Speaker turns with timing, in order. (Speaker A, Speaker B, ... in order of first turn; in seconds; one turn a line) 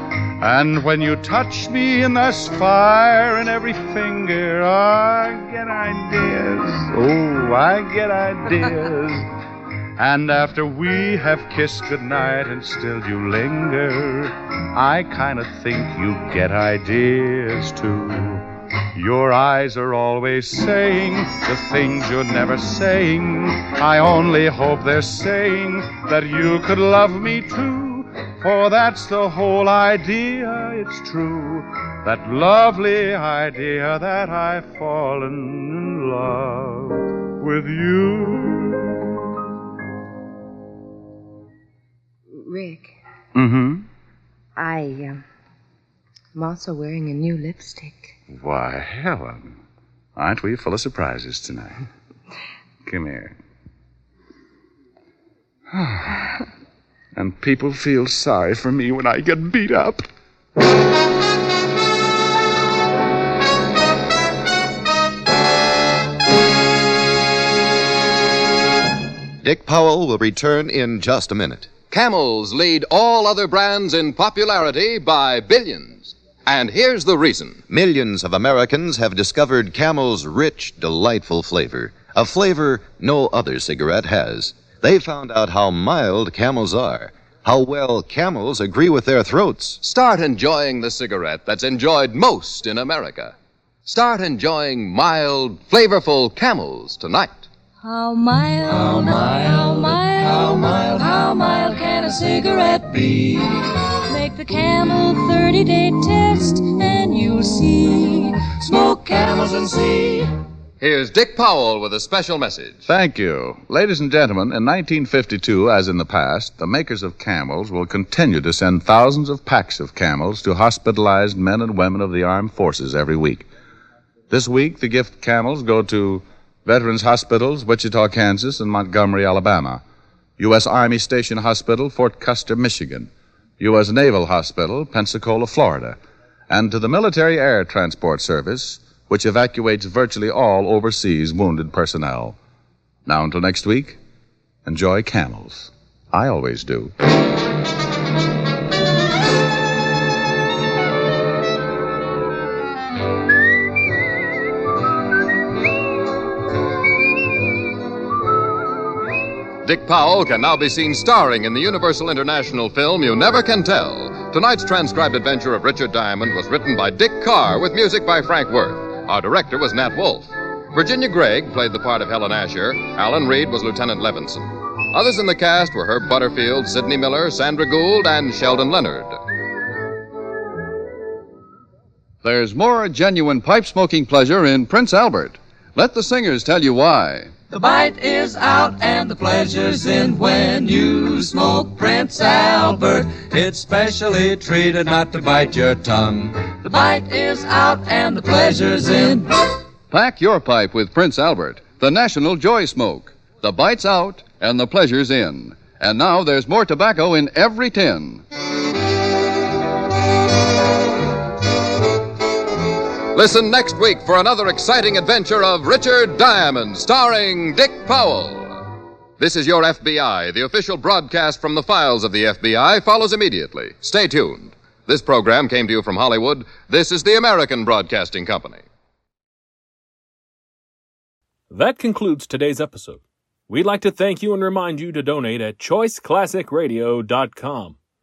Speaker A: 0.4-9.3
Speaker A: 10.0-39.1
Speaker B: 42.3-42.9
Speaker A: 43.3-43.9
Speaker B: 44.5-45.2
Speaker B: 46.3-48.1
Speaker A: 48.3-49.5
Speaker A: 50.1-51.8
Speaker A: 52.9-53.3
Speaker A: 55.7-56.2
Speaker A: 57.1-60.0
Speaker C: 69.4-71.7
Speaker D: 71.9-77.6
Speaker C: 77.7-89.8
Speaker D: 89.8-97.5
Speaker E: 97.8-110.3
Speaker D: 110.8-112.8
Speaker A: 112.8-123.5
Speaker A: 124.3-129.8
Speaker A: 130.4-136.0
Speaker A: 136.5-142.4
Speaker A: 143.1-144.0
Speaker A: 144.6-146.9
Speaker D: 159.6-179.2
Speaker F: 182.2-187.4
Speaker E: 187.5-199.3
Speaker F: 199.9-208.2
Speaker D: 213.1-228.6
Speaker G: 231.5-237.8